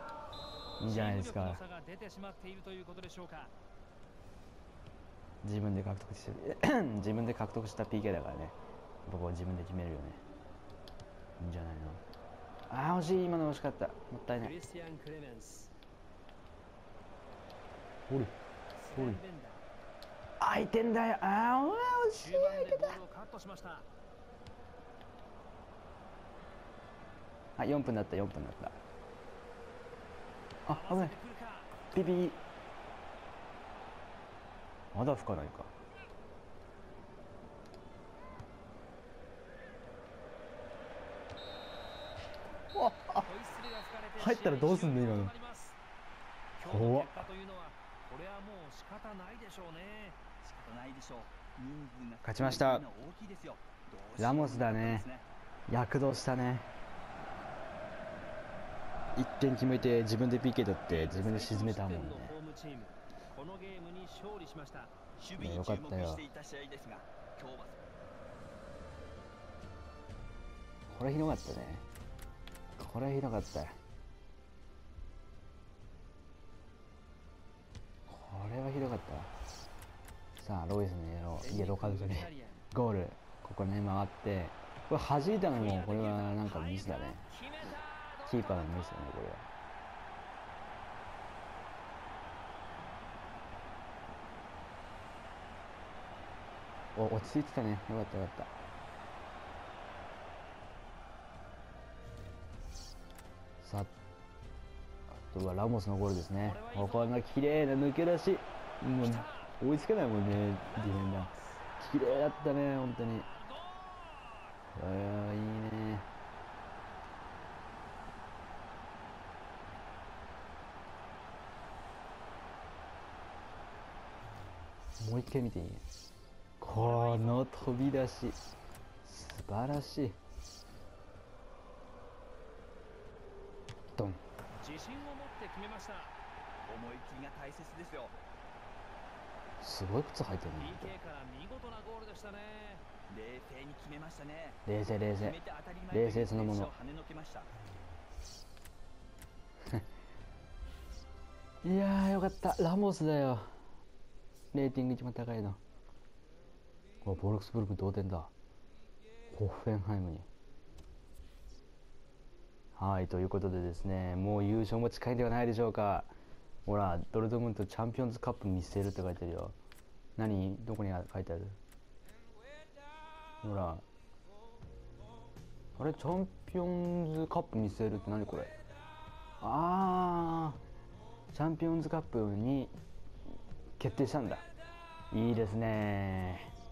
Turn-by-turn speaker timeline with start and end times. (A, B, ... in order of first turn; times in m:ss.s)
0:00.8-0:01.6 A
0:00.8-0:03.5 B
0:05.4-0:10.2 A
0:11.4-0:12.0 A
0:12.7-0:14.6 A
0:14.4-0:15.7 B
0:18.1-0:18.3 A
0:18.7-0:19.6 B
0:18.9-0:19.2 A
0:20.4-0:23.0 A
0:22.1-0:23.9 B
0:27.6-0:28.8 A
0:30.6-0:31.1 A
0:30.6-0:31.8 B
0:31.9-0:32.4 A
0:34.9-0:35.7 A
0:42.7-0:43.3 A
0:43.2-0:45.8 B
0:44.2-0:45.3 A
0:46.6-0:50.2 B
0:46.6-0:47.3 A
0:50.4-0:55.2 C
0:52.2-0:52.8 A
0:54.2-0:55.0 A
0:55.7-0:56.7 A
0:59.2-1:02.3 A
1:00.8-1:04.9 B
1:05.2-1:07.8 C
1:05.4-1:06.2 A
1:10.9-1:11.8 A
1:12.8-1:13.7 A
1:18.1-1:19.3 A
1:20.4-1:27.2 A
1:21.4-1:22.6 B
1:25.3-1:29.0 B
1:28.2-1:29.5 A
1:36.9-1:38.5 A
1:43.6-1:43.9 A
1:45.1-1:53.3 A
1:46.4-1:47.2 B
1:49.0-1:49.6 B
1:50.6-1:52.3 B
1:53.3-1:54.6 B
1:54.7-1:56.1 A
2:05.0-2:05.8 A
2:06.6-2:08.4 A
2:06.7-2:07.5 B
2:09.0-2:10.2 A
2:14.6-2:16.1 B
2:16.6-2:18.2 C
2:19.6-2:20.9 A
2:20.6-2:22.8 B
2:23.1-2:24.6 C
2:24.6-2:25.4 A
2:25.2-2:27.5 C
2:25.9-2:26.7 A
2:31.6-2:33.5 A
2:34.5-2:35.6 A
2:37.0-2:38.3 A
2:39.3-2:40.3 A
2:42.7-2:46.1 A
2:46.6-2:49.6 A
2:50.2-2:51.6 A
2:53.4-2:53.8 A
2:55.8-2:58.5 A
2:59.4-3:00.6 A
3:01.3-3:02.7 A
3:03.8-3:04.4 A
3:05.1-3:06.5 A